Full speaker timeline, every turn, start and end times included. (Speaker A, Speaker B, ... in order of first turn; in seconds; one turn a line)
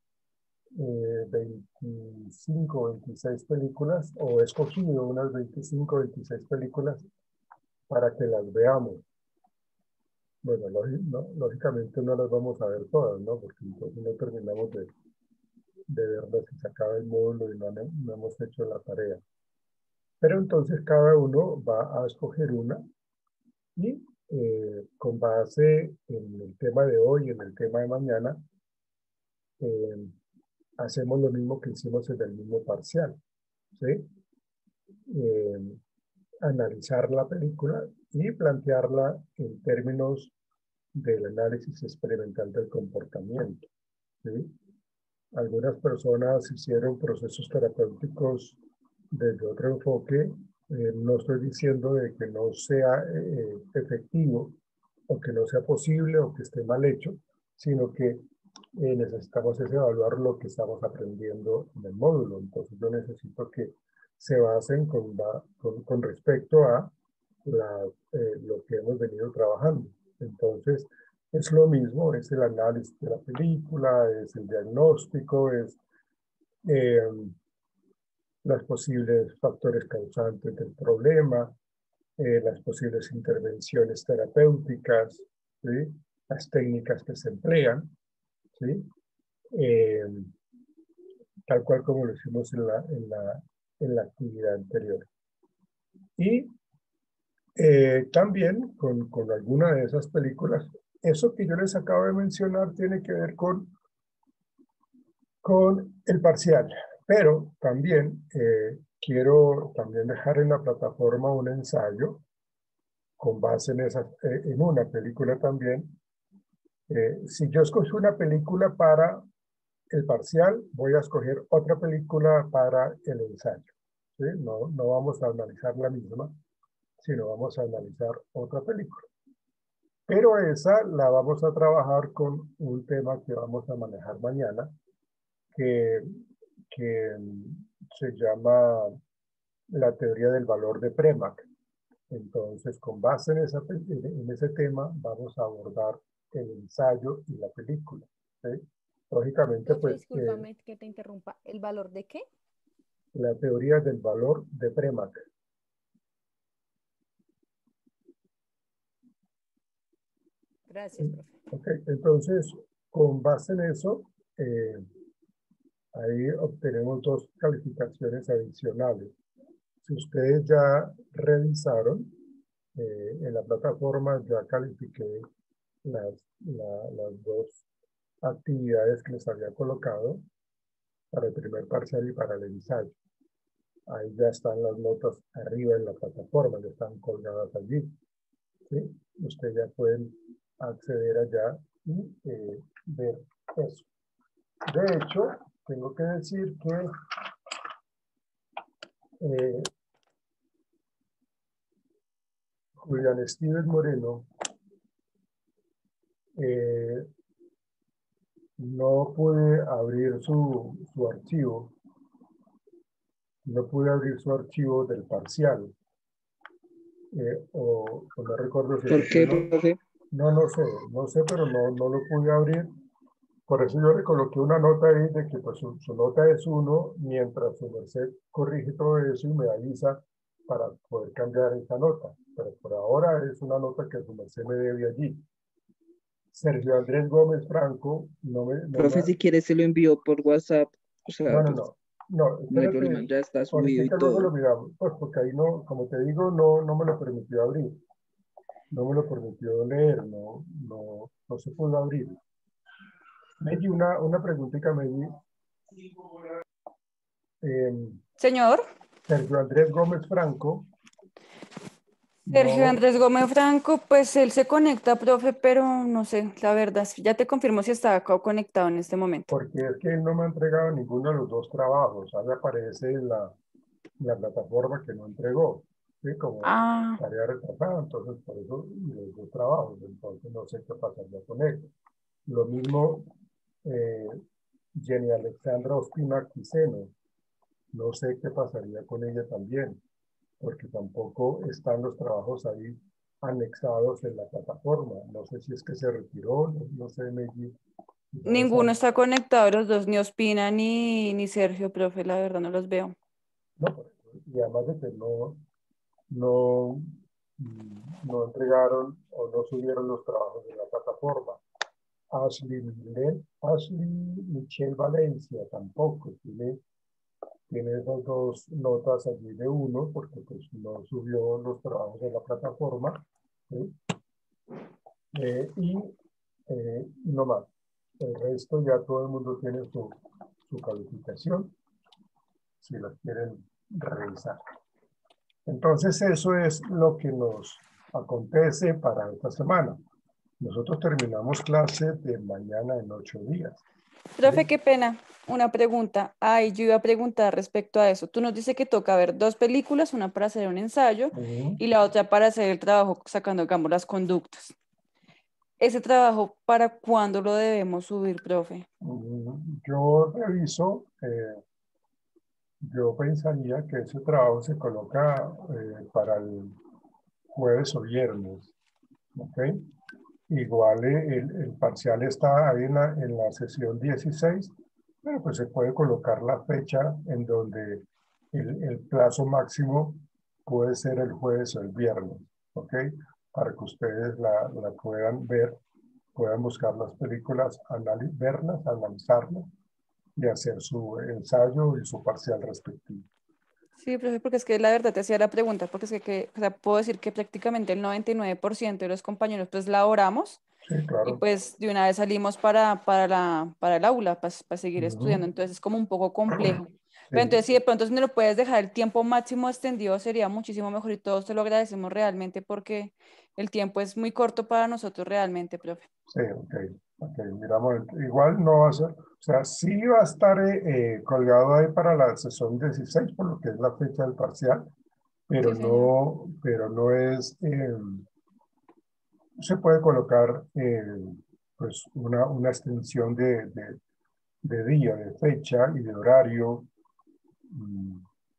Speaker A: 0.8-7.0
Speaker A: 7.9-9.0
Speaker A: 10.4-14.9
Speaker A: 15.9-19.2
Speaker A: 20.2-22.8
Speaker A: 23.8-28.4
Speaker A: 29.6-30.1
Speaker A: 30.8-33.2
Speaker A: 33.8-34.1
Speaker A: 35.1-35.8
Speaker A: 36.4-40.3
Speaker A: 40.9-43.7
Speaker A: 44.2-44.5
Speaker A: 45.3-48.6
Speaker A: 49.1-54.6
Speaker A: 55.1-58.2
Speaker A: 58.8-66.9
Speaker A: 67.5-75.8
Speaker A: 76.7-77.3
Speaker A: 78.4-81.5
Speaker A: 82.2-87.9
Speaker A: 88.6-88.9
Speaker A: 89.5-90.3
Speaker A: 91.5-95.1
Speaker A: 96.2-96.5
Speaker A: 97.6-103.7
Speaker A: 105.4-112.2
Speaker A: 113.2-115.9
Speaker A: 116.9-119.2
Speaker A: 119.9-126.3
Speaker A: 127.0-129.1
Speaker A: 130.1-134.7
Speaker A: 135.6-136.1
Speaker A: 136.7-139.0
Speaker A: 139.7-141.4
Speaker A: 142.1-150.4
Speaker B: 149.7-152.3
Speaker A: 153.1-155.2
Speaker B: 160.7-161.3
Speaker A: 161.5-164.8
Speaker A: 165.9-169.2
Speaker A: 169.8-172.1
Speaker A: 172.8-175.3
Speaker A: 175.8-177.6
Speaker A: 178.2-180.2
Speaker A: 181.1-182.9
Speaker A: 183.9-187.9
Speaker A: 188.7-193.9
Speaker A: 194.7-197.0
Speaker A: 199.2-199.7
Speaker A: 202.8-204.3
Speaker A: 206.4-207.1
Speaker A: 208.6-211.7
Speaker A: 213.5-215.7
Speaker A: 217.1-219.5
Speaker C: 218.9-219.8
Speaker A: 220.1-222.7
Speaker A: 223.5-235.2
Speaker A: 236.3-239.1
Speaker C: 238.8-241.6
Speaker A: 241.3-247.8
Speaker C: 242.5-244.3
Speaker A: 248.7-252.2
Speaker A: 253.4-255.2
Speaker A: 257.4-258.0
Speaker D: 258.2-258.6
Speaker A: 259.1-260.7
Speaker D: 262.2-269.3
Speaker A: 262.3-262.8
Speaker A: 269.3-273.4
Speaker A: 274.0-281.7
Speaker D: 276.4-277.0
Speaker A: 282.3-283.1
Speaker A: 283.6-284.2
Speaker A: 284.8-286.9
Speaker A: 287.7-289.8
Speaker A: 290.4-297.6
Speaker A: 298.1-298.8
Speaker D: 298.3-302.9
Speaker A: 303.6-305.4
Speaker A: 306.1-311.4
Speaker A: 312.1-316.6
Speaker A: 317.5-323.8
Speaker A: 325.1-325.9
Speaker A: 326.5-327.5
Speaker A: 328.0-331.5
Speaker A: 332.6-334.4
Speaker A: 335.5-339.8
Speaker A: 340.4-343.6
Speaker D: 344.2-354.6
Speaker A: 344.2-344.5
Speaker A: 351.1-351.6
Speaker D: 355.6-358.7
Speaker A: 358.8-361.4
Speaker A: 362.6-366.6
Speaker A: 367.3-368.5
Speaker A: 369.2-369.7
Speaker A: 370.3-374.5
Speaker A: 375.0-385.6
Speaker A: 386.1-389.5
Speaker A: 390.2-393.1
Speaker D: 393.8-400.4
Speaker A: 400.7-401.2
Speaker D: 401.1-415.9
Speaker A: 404.8-405.2
Speaker A: 407.1-407.4
Speaker A: 416.1-424.7
Speaker A: 425.3-428.1
Speaker D: 425.4-425.9
Speaker A: 429.4-433.8
Speaker A: 434.4-436.7
Speaker A: 437.5-438.1